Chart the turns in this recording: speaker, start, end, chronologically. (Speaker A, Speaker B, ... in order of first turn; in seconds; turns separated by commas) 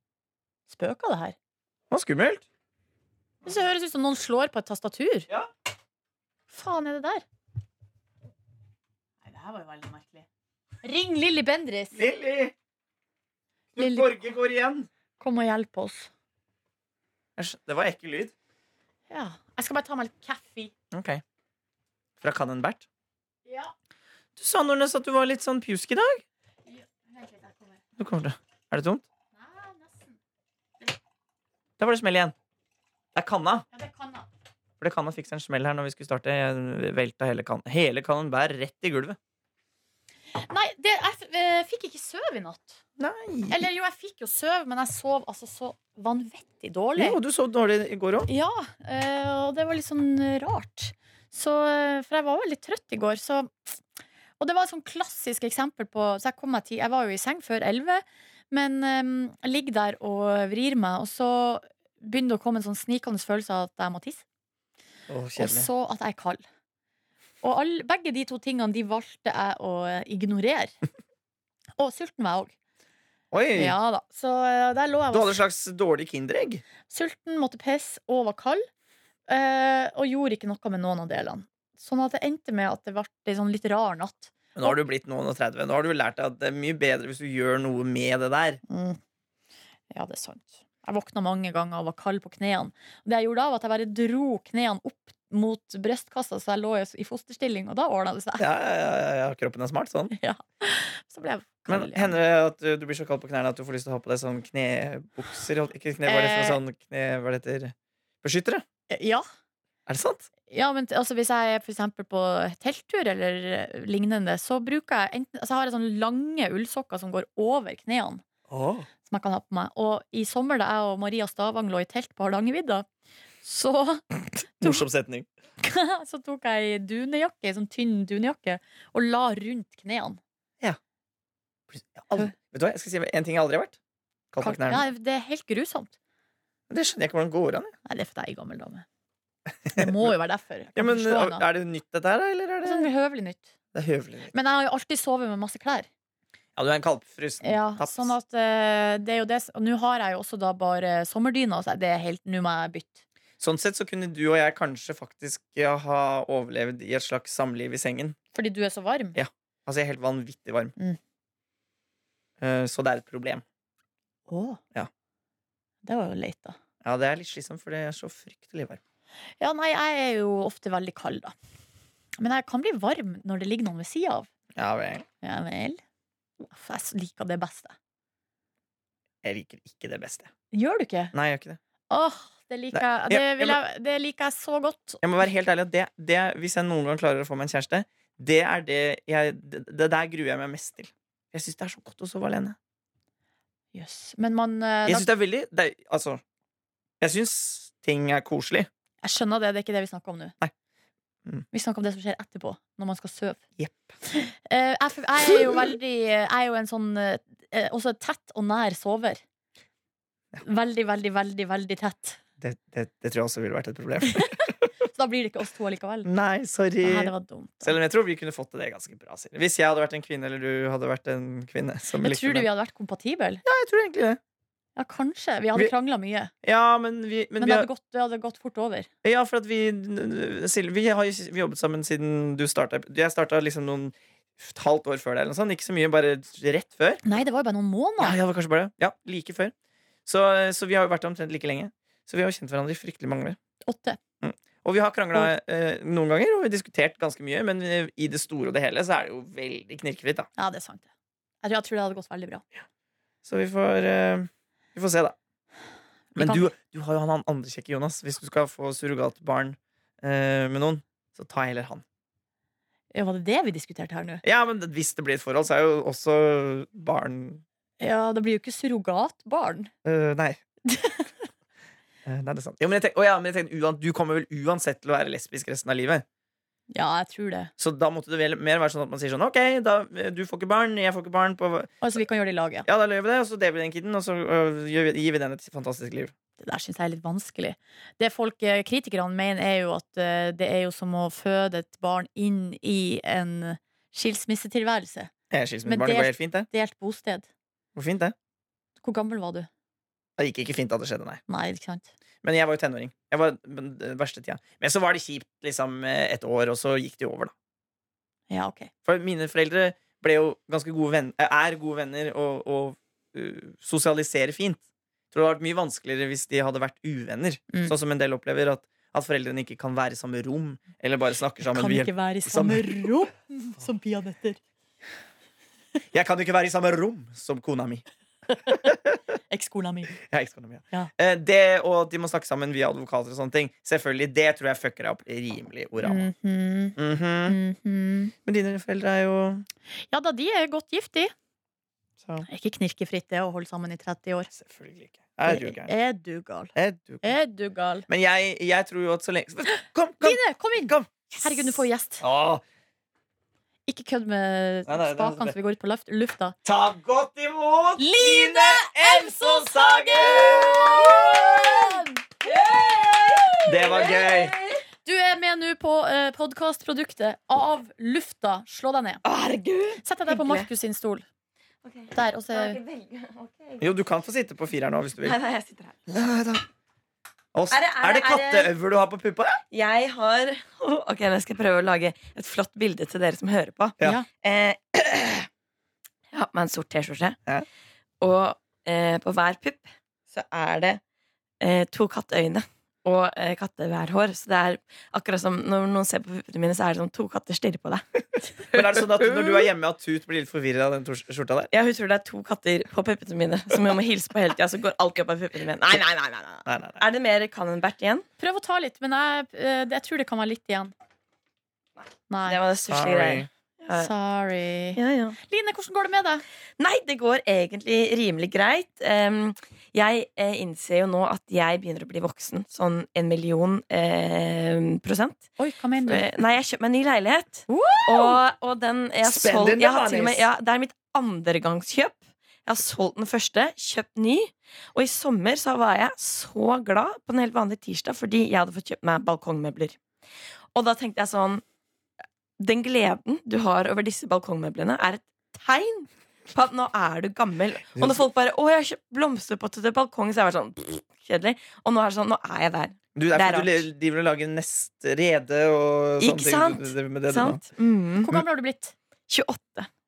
Speaker A: 0.7-1.4, Speaker B: 1.9-2.4, Speaker A: 3.4-5.3, Speaker A: 6.5-7.2, Speaker A: 9.2-10.2, Speaker A: 10.8-12.0, Speaker B: 11.9-12.5, Speaker B: 13.7-14.9, Speaker A: 13.8-14.1, Speaker A: 15.2-16.1, Speaker B: 17.4-18.3, Speaker A: 19.1-20.7, Speaker B: 20.9-21.2, Speaker B: 22.2-22.9, Speaker A: 23.4-23.7, Speaker B: 24.4-26.2, Speaker A: 26.6-27.8, Speaker B: 28.0-29.0, Speaker A: 29.3-30.2, Speaker B: 31.8-32.3, Speaker B: 33.1-33.6, Speaker A: 33.7-34.3, Speaker B: 34.8-39.2, Speaker A: 40.4-42.8, Speaker B: 43.0-43.6, Speaker A: 43.5-47.2, Speaker B: 47.0-48.3, Speaker A: 48.3-53.8, Speaker A: 54.4-64.2, Speaker B: 65.1-65.7, Speaker A: 65.4-66.4, Speaker A: 67.4-70.7, Speaker A: 71.8-72.5, Speaker B: 73.3-73.7, Speaker A: 73.5-75.4, Speaker B: 75.1-76.6, Speaker A: 76.9-78.7, Speaker A: 79.3-84.8, Speaker B: 84.5-88.6, Speaker A: 88.7-89.0, Speaker A: 89.9-98.4, Speaker B: 98.4-100.1, Speaker A: 100.1-102.1, Speaker B: 101.7-108.6, Speaker A: 106.0-106.6, Speaker A: 108.9-109.2, Speaker B: 109.9-110.3, Speaker A: 110.5-118.2, Speaker B: 118.5-118.9, Speaker A: 119.0-122.8, Speaker A: 123.4-124.8, Speaker B: 124.6-125.3, Speaker A: 125.6-130.2, Speaker B: 131.7-133.8, Speaker B: 134.3-134.8, Speaker A: 134.4-135.9, Speaker B: 136.7-137.7, Speaker A: 137.8-138.8, Speaker B: 139.6-140.1, Speaker A: 139.7-141.4, Speaker B: 140.8-142.9, Speaker A: 142.6-143.5, Speaker B: 143.7-144.3, Speaker A: 144.3-145.9, Speaker B: 146.6-148.1, Speaker A: 147.4-153.0, Speaker B: 153.4-158.2, Speaker A: 158.3-159.2, Speaker B: 159.2-160.7, Speaker B: 162.4-163.4, Speaker A: 164.3-164.6, Speaker A: 165.8-166.6, Speaker B: 166.8-168.8, Speaker A: 169.4-171.3, Speaker A: 172.2-174.3, Speaker B: 174.5-175.1, Speaker A: 175.2-175.8, Speaker A: 176.4-177.8, Speaker B: 179.2-180.3, Speaker A: 180.5-181.1, Speaker B: 181.1-181.6, Speaker A: 181.9-185.0, Speaker B: 182.7-183.6, Speaker B: 185.0-192.6, Speaker A: 193.7-195.1, Speaker B: 194.8-196.2, Speaker B: 197.0-198.7, Speaker A: 199.0-200.3, Speaker A: 201.5-203.4, Speaker B: 203.6-203.9, Speaker A: 204.1-209.2, Speaker A: 210.4-212.2, Speaker B: 212.4-214.7, Speaker A: 214.1-216.1, Speaker B: 216.0-217.1, Speaker A: 216.8-217.8, Speaker B: 217.6-222.5, Speaker A: 222.0-223.4, Speaker B: 223.4-224.2, Speaker A: 224.8-226.3, Speaker B: 226.4-227.7, Speaker A: 227.4-228.9, Speaker B: 229.0-237.0, Speaker A: 237.0-238.2, Speaker B: 238.0-239.5, Speaker B: 240.1-243.4, Speaker A: 243.6-244.0, Speaker B: 244.2-250.3, Speaker A: 250.4-250.9, Speaker A: 251.4-252.4, Speaker B: 253.2-255.2, Speaker B: 256.1-261.8, Speaker A: 256.2-256.5, Speaker A: 262.9-264.2, Speaker B: 264.2-267.4, Speaker A: 267.8-269.7, Speaker B: 269.8-270.4, Speaker A: 270.7-271.1, Speaker B: 272.0-276.0, Speaker A: 276.7-277.5, Speaker B: 277.6-281.8, Speaker A: 281.8-282.6, Speaker B: 282.6-286.1, Speaker A: 286.4-295.1, Speaker B: 295.3-296.5, Speaker A: 295.6-297.3, Speaker B: 297.7-298.1, Speaker A: 298.8-299.5, Speaker B: 300.2-301.2, Speaker A: 301.3-301.9, Speaker B: 302.2-307.3, Speaker A: 308.3-308.7, Speaker B: 308.8-322.9, Speaker A: 321.5-324.4, Speaker B: 325.9-327.8, Speaker A: 328.3-328.7, Speaker B: 328.6-329.1, Speaker A: 329.3-330.0, Speaker B: 330.0-336.1, Speaker A: 335.8-338.1, Speaker B: 336.8-337.4, Speaker B: 338.2-339.5, Speaker A: 339.9-341.1, Speaker B: 342.0-342.3, Speaker A: 342.2-344.3, Speaker B: 344.3-345.7, Speaker A: 345.2-347.9, Speaker B: 346.5-347.1, Speaker B: 347.9-352.4, Speaker A: 350.0-352.0, Speaker A: 353.7-356.4, Speaker B: 354.6-355.3, Speaker B: 356.4-361.6, Speaker A: 357.8-362.4, Speaker C: 362.2-364.6, Speaker B: 363.4-364.3, Speaker A: 364.8-369.0, Speaker C: 369.0-370.4, Speaker A: 369.8-371.0, Speaker C: 371.6-373.7, Speaker A: 371.9-372.6, Speaker B: 373.6-375.2, Speaker C: 375.0-375.9, Speaker B: 375.9-376.4, Speaker B: 377.3-379.4, Speaker C: 377.5-378.5, Speaker C: 379.5-385.3, Speaker A: 383.8-384.1, Speaker C: 386.1-387.2, Speaker C: 388.0-390.8, Speaker C: 391.4-399.5, Speaker B: 398.5-401.5, Speaker C: 401.5-408.1, Speaker B: 406.4-406.8, Speaker A: 408.2-410.7, Speaker A: 412.1-412.4, Speaker C: 412.2-413.9, Speaker B: 412.7-413.3, Speaker A: 413.7-416.2, Speaker C: 414.8-415.2, Speaker C: 416.6-425.3, Speaker A: 425.4-426.1, Speaker C: 425.9-439.8, Speaker A: 427.5-428.2, Speaker B: 429.0-430.2, Speaker C: 440.5-441.4, Speaker C: 442.4-453.6, Speaker B: 447.8-448.0, Speaker B: 452.9-457.4, Speaker C: 456.0-458.1, Speaker A: 458.0-458.7, Speaker C: 459.1-459.7